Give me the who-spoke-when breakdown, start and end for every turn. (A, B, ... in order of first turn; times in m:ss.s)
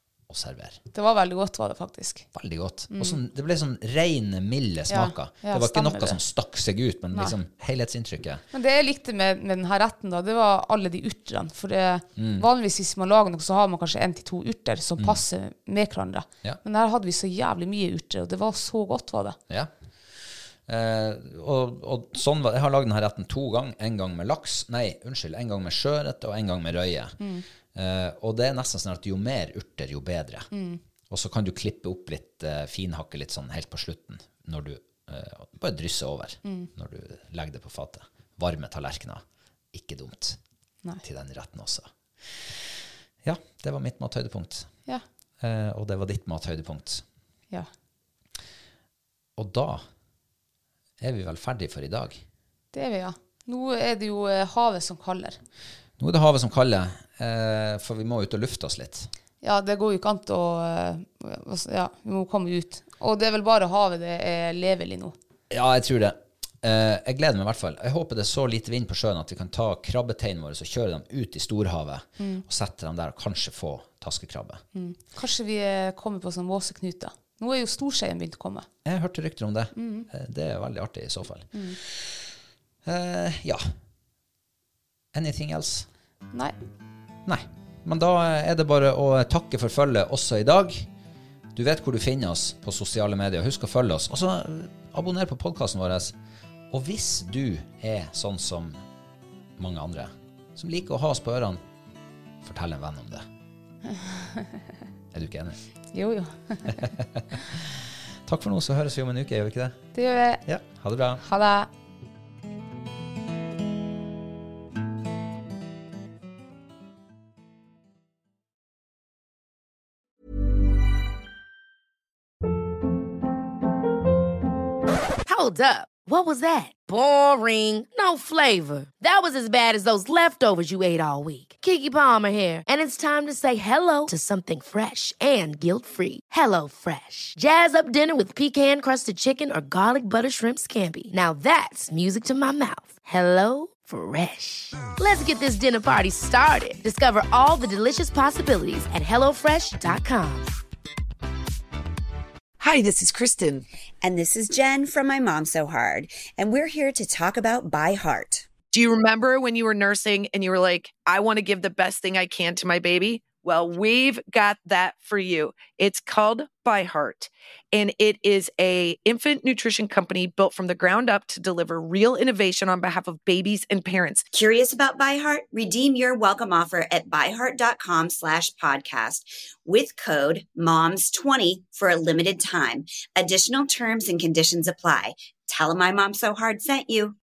0:00.3-0:00.8 A
0:00.9-0:02.3 B
0:02.3-0:08.4 A
0:02.9-0:03.2 B
0:04.9-0:06.2 B
0:08.5-0:19.4 B
0:12.2-0:12.5 A
0:19.5-0:27.2 A
0:27.2-0:27.4 B
0:27.7-0:30.5 A
0:30.5-0:30.8 B
0:31.1-0:40.4 A
0:41.0-0:44.7 A
0:45.4-0:47.0 A
0:49.4-0:49.8 A
0:51.0-0:52.2 A
0:52.7-0:55.4 B
0:56.0-0:59.1 A
0:59.4-1:05.2 B
1:05.5-1:14.6 A
1:12.2-1:12.4 B
1:14.7-1:18.7 B
1:18.8-1:22.3 A
1:19.8-1:20.1 B
1:21.5-1:21.8 B
1:22.8-1:23.6 A
1:25.1-1:25.9 A
1:27.3-1:30.9 A
1:31.6-1:36.2 A
1:36.7-1:38.8 A
1:39.6-1:41.6 A
1:42.4-1:43.3 A
1:43.9-1:44.5 B
1:45.1-1:45.6 A
1:45.9-1:46.9 B
1:46.7-1:49.9 A
1:50.0-1:50.4 B
1:50.4-1:51.2 A
1:51.2-1:51.7 B
2:05.2-2:30.5 C
2:32.6-2:33.6 D
2:34.0-2:38.5 E
2:38.7-2:54.3 D
2:54.3-3:07.2 E